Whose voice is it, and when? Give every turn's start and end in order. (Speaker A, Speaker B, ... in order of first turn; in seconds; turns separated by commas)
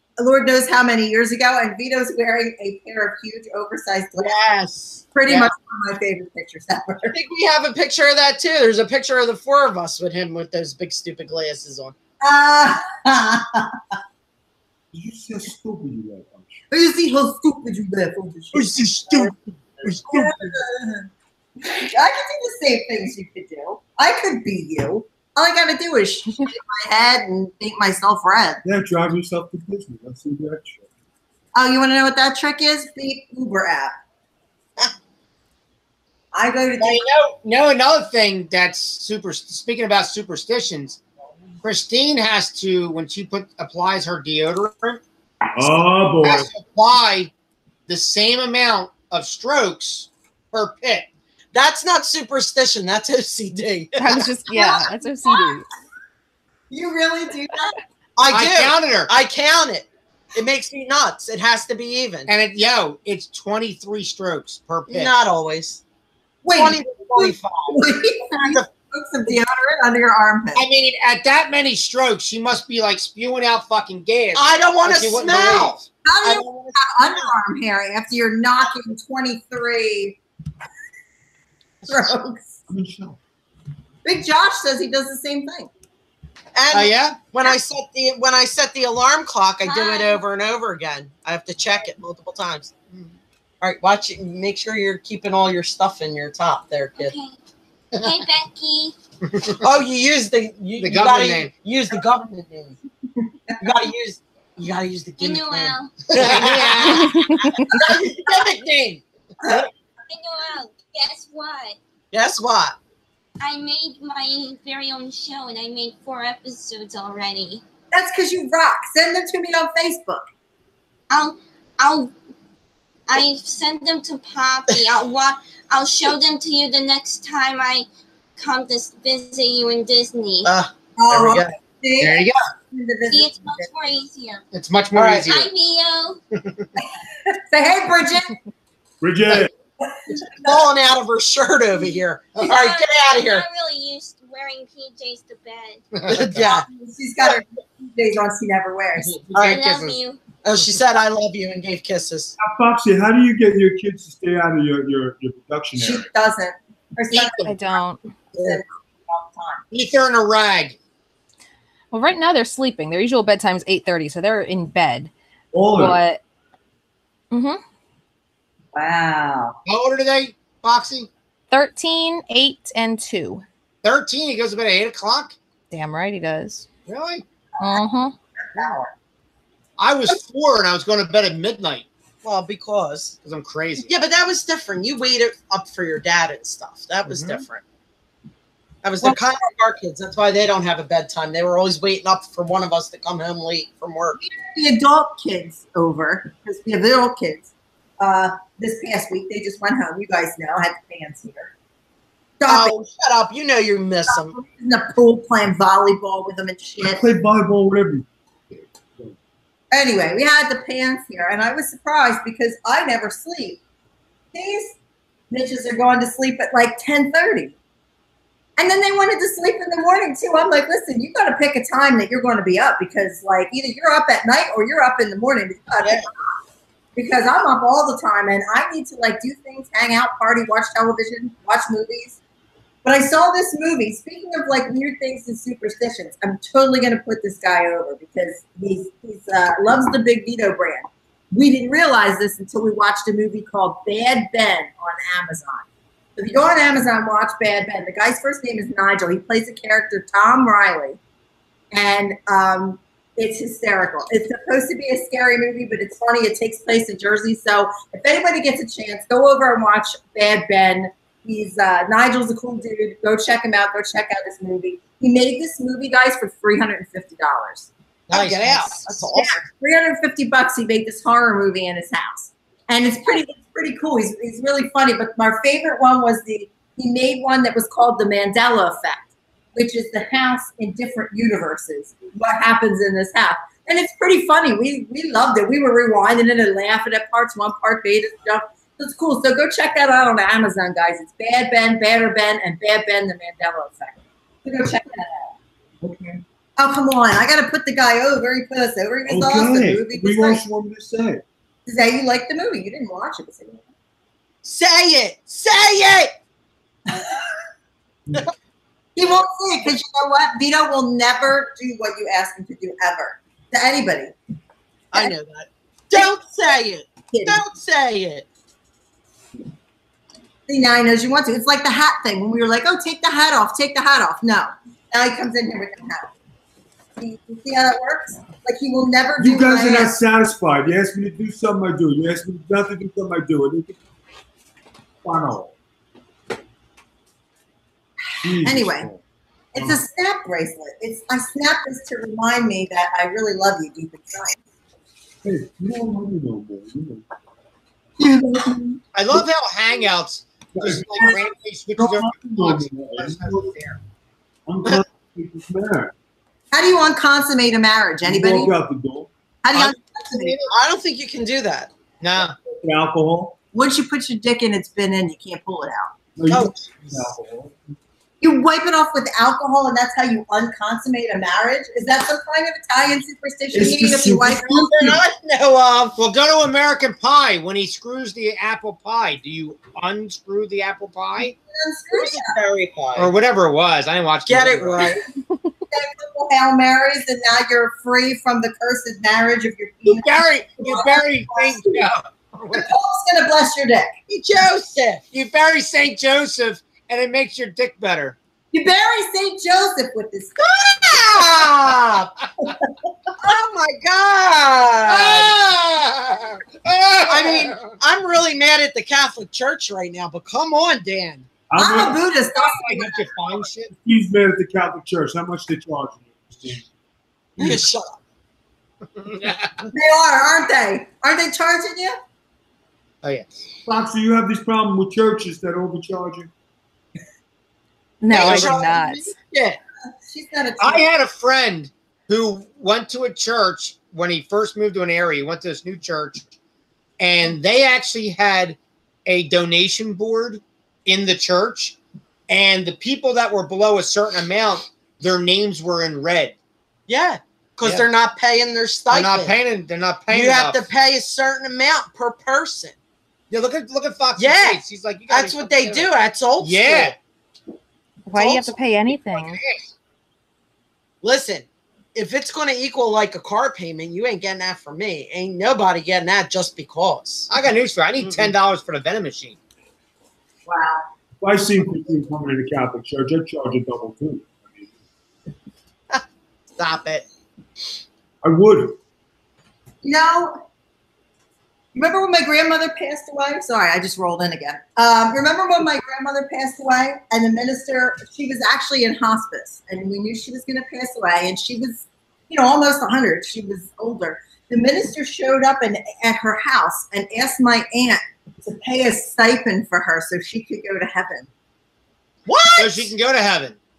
Speaker A: 0.2-4.3, Speaker B: 4.2-5.1, Speaker A: 5.1-7.2, Speaker B: 7.1-11.9, Speaker A: 12.2-13.9, Speaker C: 14.9-16.6, Speaker A: 16.7-19.3, Speaker B: 18.6-19.3, Speaker A: 20.0-21.1, Speaker A: 21.6-28.6, Speaker C: 28.6-30.8, Speaker A: 31.5-33.9, Speaker A: 36.3-37.0, Speaker D: 36.8-41.0, Speaker D: 41.6-45.0, Speaker C: 45.5-46.5, Speaker D: 46.2-47.3, Speaker D: 47.9-51.1, Speaker B: 51.5-54.0, Speaker E: 54.0-55.7, Speaker A: 56.7-57.8, Speaker B: 58.1-62.3, Speaker D: 58.2-59.1, Speaker D: 62.3-65.1, Speaker B: 64.9-65.8, Speaker A: 66.4-70.7, Speaker B: 66.5-67.8, Speaker D: 70.5-75.8, Speaker B: 74.3-77.3, Speaker A: 76.0-80.2, Speaker A: 81.8-82.6, Speaker C: 82.7-83.2, Speaker A: 84.0-85.7, Speaker B: 86.5-92.7, Speaker D: 86.7-87.3, Speaker F: 89.6-90.2, Speaker B: 93.6-97.2, Speaker F: 97.0-97.4, Speaker D: 97.9-98.2, Speaker F: 98.0-98.9, Speaker D: 99.2-99.7, Speaker B: 99.6-102.8, Speaker D: 100.8-101.5, Speaker A: 103.2-103.6, Speaker B: 103.6-107.1, Speaker F: 105.2-106.0, Speaker D: 106.1-107.2, Speaker E: 106.9-107.8, Speaker B: 107.7-109.0, Speaker A: 107.7-108.1, Speaker F: 110.1-111.8, Speaker B: 112.1-112.8, Speaker F: 113.4-117.6, Speaker A: 117.9-120.2, Speaker F: 121.1-122.1, Speaker F: 123.1-130.5, Speaker B: 130.4-131.5, Speaker A: 131.0-133.7, Speaker D: 132.0-132.4, Speaker F: 133.1-134.4, Speaker D: 134.5-135.5, Speaker B: 134.9-135.3, Speaker F: 135.2-136.2, Speaker D: 136.3-136.7, Speaker A: 136.8-138.4, Speaker C: 139.0-139.5, Speaker A: 139.8-140.7, Speaker B: 140.3-143.4, Speaker F: 142.4-145.9, Speaker D: 145.9-146.4, Speaker B: 146.1-146.7, Speaker A: 146.4-149.2, Speaker D: 149.2-150.0, Speaker B: 149.3-149.6, Speaker F: 149.3-150.2, Speaker B: 150.4-152.3, Speaker C: 152.4-156.1, Speaker A: 155.8-157.6, Speaker D: 157.1-157.5, Speaker E: 157.4-158.0, Speaker A: 158.3-159.6, Speaker D: 159.7-160.8, Speaker E: 161.9-165.1, Speaker C: 165.5-166.0, Speaker E: 165.7-166.2, Speaker E: 167.3-167.6, Speaker A: 168.7-169.6, Speaker D: 169.7-171.1, Speaker E: 171.5-173.4, Speaker D: 173.8-175.3, Speaker E: 175.7-176.7, Speaker D: 176.9-177.2, Speaker E: 177.6-178.1, Speaker A: 178.5-178.9, Speaker D: 179.8-181.9, Speaker B: 182.2-183.2, Speaker D: 183.2-183.9, Speaker B: 183.9-187.6, Speaker D: 187.1-187.4, Speaker B: 188.8-194.2, Speaker A: 194.2-197.5, Speaker A: 198.0-201.5, Speaker A: 202.4-202.7, Speaker B: 202.5-204.3, Speaker A: 204.1-207.0, Speaker C: 206.8-209.2, Speaker A: 209.7-213.6, Speaker A: 214.3-214.8, Speaker A: 215.3-217.6, Speaker A: 218.6-226.1, Speaker B: 225.8-226.1, Speaker A: 226.9-232.2, Speaker A: 232.8-245.6, Speaker A: 246.2-251.0, Speaker A: 251.7-267.7, Speaker B: 268.1-269.4, Speaker D: 268.1-268.8, Speaker A: 269.1-295.3, Speaker C: 295.8-296.2, Speaker A: 296.6-300.4, Speaker C: 299.0-301.2, Speaker A: 301.6-303.6, Speaker B: 304.4-306.1, Speaker A: 306.9-307.3, Speaker A: 308.9-314.1, Speaker B: 314.9-318.3, Speaker A: 317.1-317.4, Speaker A: 320.5-326.1, Speaker A: 327.0-329.9, Speaker C: 329.2-333.8, Speaker C: 335.0-335.5, Speaker C: 338.2-339.0, Speaker A: 338.4-338.9, Speaker C: 339.5-339.8, Speaker A: 339.5-344.4, Speaker C: 345.2-347.1, Speaker A: 348.0-348.8, Speaker D: 348.9-353.8, Speaker C: 350.5-351.2, Speaker C: 351.8-353.6, Speaker C: 354.5-355.9, Speaker A: 356.5-358.5, Speaker C: 358.0-359.1, Speaker A: 359.4-360.4, Speaker D: 359.5-360.5, Speaker B: 360.5-361.7, Speaker D: 362.0-362.4, Speaker C: 362.2-363.4, Speaker A: 363.5-365.9, Speaker C: 366.1-367.6, Speaker B: 366.3-367.1, Speaker A: 368.2-374.7, Speaker C: 373.5-375.0, Speaker B: 374.7-375.9, Speaker D: 375.9-381.4, Speaker A: 381.5-382.3, Speaker B: 381.9-383.1, Speaker D: 382.9-385.0, Speaker B: 384.2-385.0, Speaker A: 385.7-391.9, Speaker D: 389.8-392.7, Speaker A: 392.5-393.9, Speaker B: 394.1-395.0, Speaker D: 395.1-398.2, Speaker A: 398.5-400.4, Speaker B: 400.7-402.1, Speaker D: 401.1-401.4, Speaker A: 402.4-403.1, Speaker B: 403.2-405.3, Speaker D: 404.9-407.8, Speaker B: 407.0-411.3, Speaker C: 411.5-412.0, Speaker A: 411.6-413.1, Speaker D: 412.4-413.7, Speaker C: 413.8-416.7, Speaker C: 417.4-417.6, Speaker B: 417.4-418.0, Speaker D: 419.0-419.7, Speaker A: 419.7-421.9, Speaker D: 423.0-423.3, Speaker C: 423.6-426.3, Speaker A: 428.0-428.9, Speaker B: 428.1-429.6, Speaker D: 428.2-428.6, Speaker E: 428.2-429.1, Speaker A: 430.1-430.9, Speaker D: 430.6-436.2, Speaker D: 437.0-441.8, Speaker D: 442.3-446.3, Speaker B: 446.9-449.3, Speaker D: 448.9-450.6, Speaker B: 450.1-452.7, Speaker D: 453.3-456.9, Speaker B: 454.2-456.9, Speaker E: 458.1-459.4, Speaker B: 458.1-458.5, Speaker D: 458.9-459.7, Speaker B: 461.0-467.3, Speaker D: 467.3-469.4, Speaker A: 470.4-470.8, Speaker C: 471.2-474.7, Speaker B: 476.6-477.0, Speaker C: 478.2-478.8, Speaker A: 479.8-480.3, Speaker A: 481.7-501.3, Speaker B: 502.2-502.9, Speaker D: 502.6-503.6